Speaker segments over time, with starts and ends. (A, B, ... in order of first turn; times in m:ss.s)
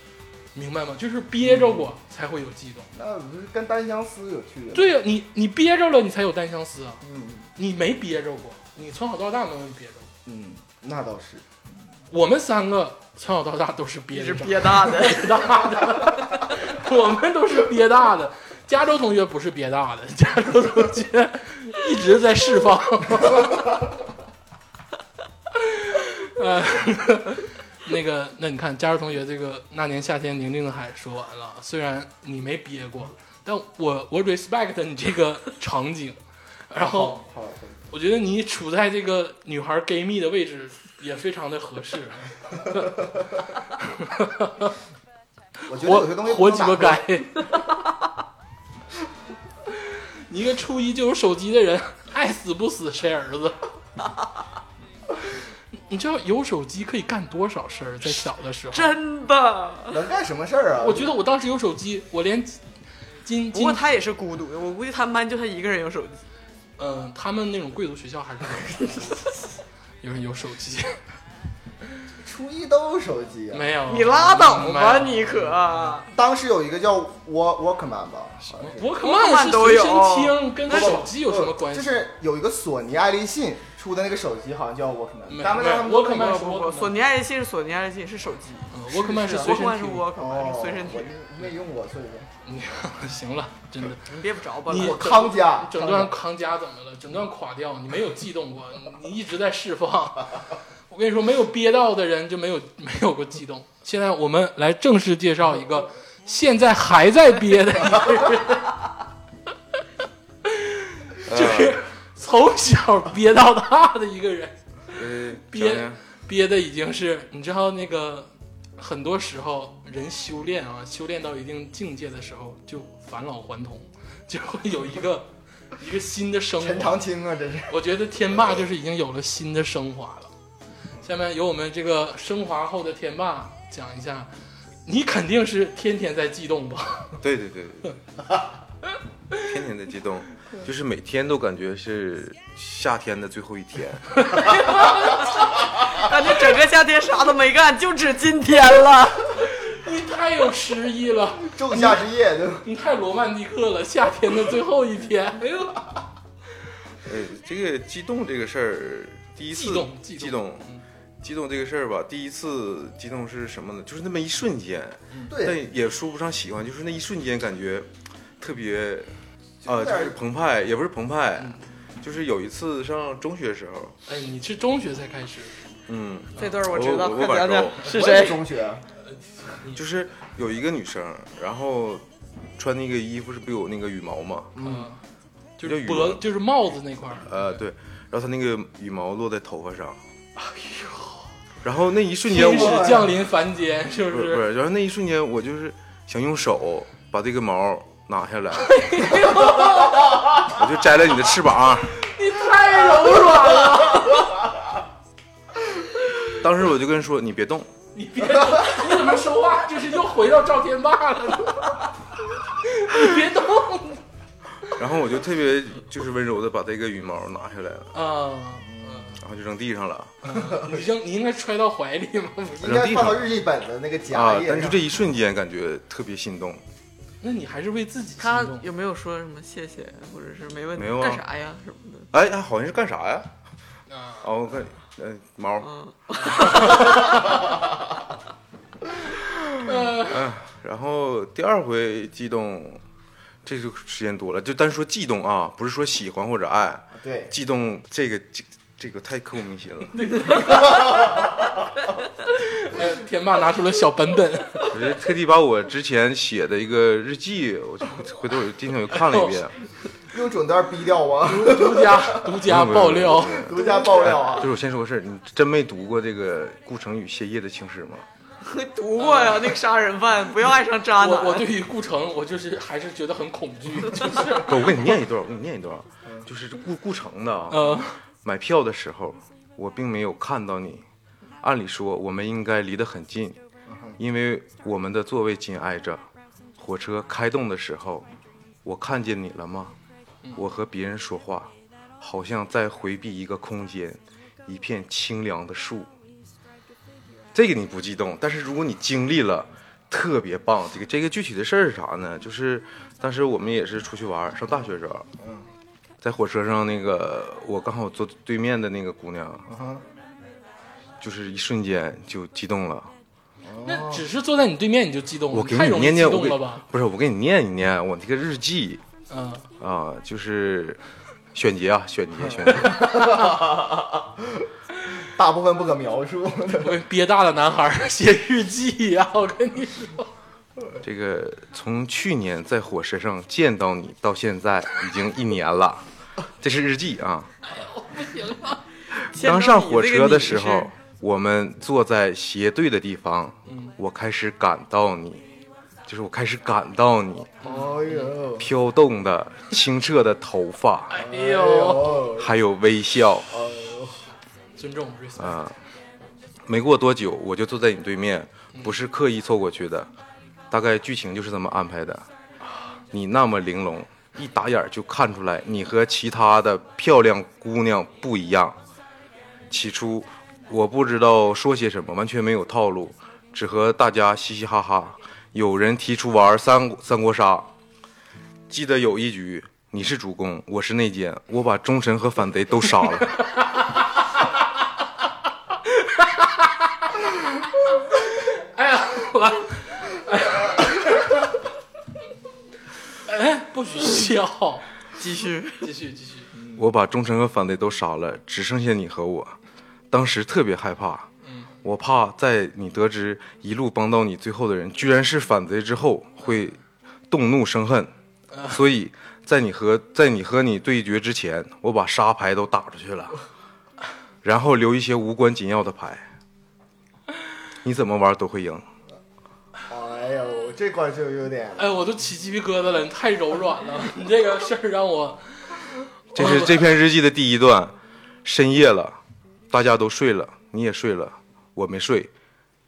0:00.6-0:02.9 A
0:01.4-0:01.9 B
0:02.9-0:05.0 B
0:04.7-0:07.0 A
0:07.0-0:07.5 B
0:07.6-0:10.1 A
0:10.3-0:11.5 B
0:12.1-0:23.9 A
0:14.1-0:15.4 C
0:25.6-0:36.2 A
0:36.7-0:37.2 A
0:36.8-0:37.9 B
0:37.9-0:43.1 A
0:43.8-0:44.7 A
0:45.7-0:47.1 B
0:45.7-0:47.5 A
0:50.3-0:53.7 A
0:55.9-0:59.0 A
0:58.7-1:00.0 C
0:59.9-1:01.1 B
1:00.8-1:02.6 A
1:03.2-1:03.8 A
1:03.5-1:06.2 C
1:06.8-1:09.3 A
1:10.0-1:11.0 A
1:12.2-1:13.7 B
1:13.5-1:15.9 A
1:13.9-1:16.0 C
1:16.1-1:18.9 B
1:18.5-1:22.1 A
1:19.0-1:21.0 C
1:20.7-1:26.5 B
1:25.3-1:26.9 A
1:26.1-1:31.1 C
1:28.7-1:30.1 A
1:29.2-1:29.5 B
1:30.1-1:32.3 B
1:32.4-1:34.1 A
1:34.1-1:35.2 C
1:34.7-1:48.8 A
1:34.7-1:36.1 B
1:50.4-1:55.0 A
1:51.3-1:51.8 D
1:54.9-1:56.0 D
1:55.5-2:07.0 A
2:06.6-2:07.8 B
2:07.7-2:10.3 A
2:11.0-2:14.3 A
2:14.9-2:17.2 A
2:17.2-2:17.9 D
2:19.4-2:24.4 D
2:24.2-2:25.5 A
2:25.8-2:29.3 C
2:29.4-2:32.1 A
2:31.4-2:32.7 B
2:32.6-2:36.0 A
2:37.0-2:40.7 D
2:39.5-2:40.8 A
2:41.2-2:47.9 D
2:45.3-2:45.6 B
2:48.4-2:49.1 D
2:49.6-2:50.2 B
2:49.7-2:54.0 D
2:51.4-2:51.6 A
2:54.1-2:55.6 A
2:55.9-2:57.9 D
2:56.4-2:58.4 C
2:57.8-2:58.8 B
2:59.1-2:59.8 A
2:59.7-3:02.0 D
3:02.6-3:04.6 D
3:04.6-3:04.9 B
3:04.6-3:05.0 A
3:05.6-3:07.6 A
3:05.6-3:06.2 D
3:07.2-3:10.0 D
3:10.4-3:11.3 A
3:11.6-3:13.0 D
3:12.3-3:14.4 A
3:12.4-3:13.1 B
3:14.1-3:19.1 D
3:18.6-3:20.4 A
3:20.4-3:22.0 D
3:22.0-3:24.4 A
3:26.4-3:27.7 D
3:28.0-3:31.8 A
3:32.6-3:34.0 A
3:34.8-3:37.9 D
3:37.9-3:39.2 A
3:38.7-3:39.1 B
3:39.2-3:40.1 D
3:40.2-3:42.8 A
3:42.6-3:44.8 B
3:42.6-3:43.3 D
3:44.1-3:46.6 D
3:47.2-3:48.7 A
3:48.2-3:52.1 C
3:50.8-3:51.2 D
3:52.1-3:53.3 D
3:53.9-3:54.2 A
3:54.2-3:55.7 D
3:55.6-3:57.2 C
3:56.4-3:57.0 A
3:59.5-4:00.3 A
4:00.0-4:02.8 D
4:03.4-4:10.2 D
4:07.0-4:07.3 B
4:10.0-4:11.3 A
4:12.3-4:14.8 A
4:14.7-4:19.5 D
4:19.0-4:19.4 A
4:20.1-4:22.4 B
4:21.2-4:23.8 A
4:22.5-4:28.0 D
4:23.4-4:24.5 B
4:28.4-4:31.5 C
4:29.0-4:29.5 A
4:31.0-4:34.5 A
4:34.2-4:40.8 D
4:37.5-4:38.0 A
4:41.4-4:43.4 D
4:43.7-4:44.0 B
4:44.0-4:46.0 D
4:46.6-4:48.1 D
4:48.6-4:49.8 D
4:50.4-4:55.9 D
4:57.3-5:05.1 D
5:05.2-5:05.5 B
5:06.0-5:09.4 D
5:09.5-5:09.8 B
5:11.0-5:12.9 D
5:13.4-5:14.1 B
5:13.6-5:16.6 A
5:15.3-5:18.8 D
5:19.1-5:19.5 A
5:19.6-5:20.8 D
5:21.3-5:22.9 D
5:22.6-5:24.5 B
5:22.6-5:23.3 A
5:25.2-5:26.8 B
5:26.6-5:30.1 A
5:30.8-5:35.8 D
5:36.4-5:37.3 D
5:37.5-5:38.6 A
5:39.0-5:40.7 C
5:39.1-5:45.2 D
5:43.5-5:43.8 A
5:45.9-5:47.4 D
5:47.4-5:48.2 A
5:47.4-5:48.5 B
5:48.4-5:51.0 D
5:50.9-5:52.2 A
5:51.0-5:52.3 B
5:52.2-5:53.3 D
5:53.3-5:54.0 B
5:54.6-5:55.4 A
5:55.2-5:55.6 D
5:56.5-5:59.9 D
6:00.5-6:02.1 D
6:02.9-6:08.6 D
6:09.5-6:17.5 D
6:18.5-6:23.2 D
6:23.2-6:23.8 A
6:25.7-6:31.2 A
6:33.1-6:34.7 A
6:35.0-6:35.7 C
6:35.6-6:36.3 A
6:36.6-6:39.4 D
6:39.9-6:41.1 D
6:41.2-6:41.5 A
6:41.6-6:46.6 D
6:47.1-6:47.9 D
6:48.3-6:48.6 A
6:48.5-6:53.2 D
6:54.2-6:56.0 D
6:57.6-6:58.6 D
6:59.7-7:01.7 B
7:01.6-7:06.6 A
7:06.2-7:07.7 D
7:08.2-7:09.0 D
7:09.5-7:12.1 D